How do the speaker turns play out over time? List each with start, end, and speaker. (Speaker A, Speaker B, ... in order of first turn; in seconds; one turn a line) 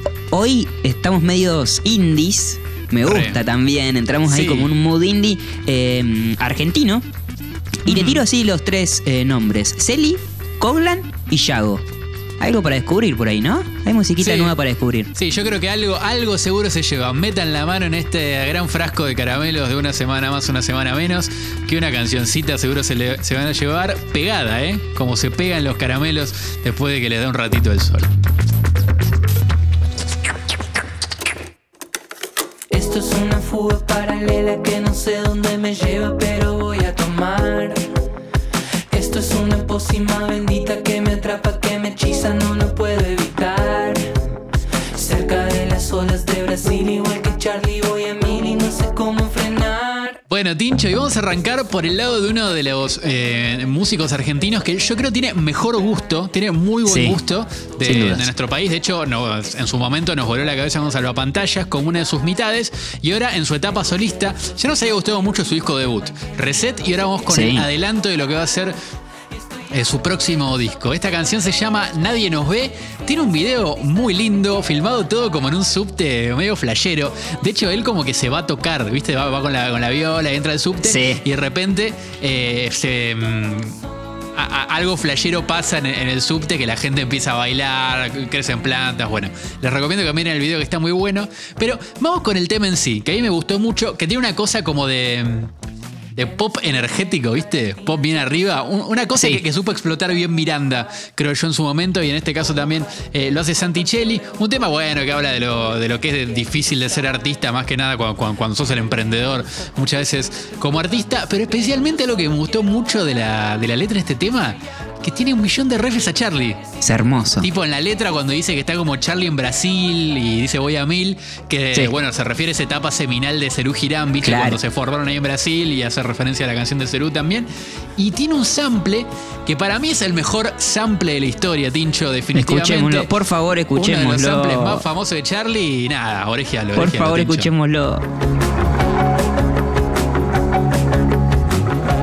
Speaker A: 0.3-7.0
Speaker B: 3.0-3.4
Speaker B: 4.2-4.7
Speaker A: 7.8-11.8
Speaker B: 7.9-8.2
Speaker A: 12.4-15.1
Speaker B: 14.2-14.6
Speaker B: 15.1-28.1
Speaker C: 32.7-37.8
Speaker C: 38.9-44.1
Speaker C: 44.9-50.2
Speaker B: 50.3-68.8
Speaker A: 56.9-57.2
Speaker A: 57.8-58.3
Speaker A: 67.3-67.7
Speaker B: 69.7-83.8
Speaker A: 80.8-81.2
Speaker B: 84.3-95.5
Speaker B: 96.1-116.6
Speaker A: 99.2-99.4
Speaker A: 116.8-117.5
Speaker B: 117.4-133.1
Speaker A: 124.2-124.6
Speaker A: 132.3-134.8
Speaker B: 133.7-137.5
Speaker A: 136.7-138.0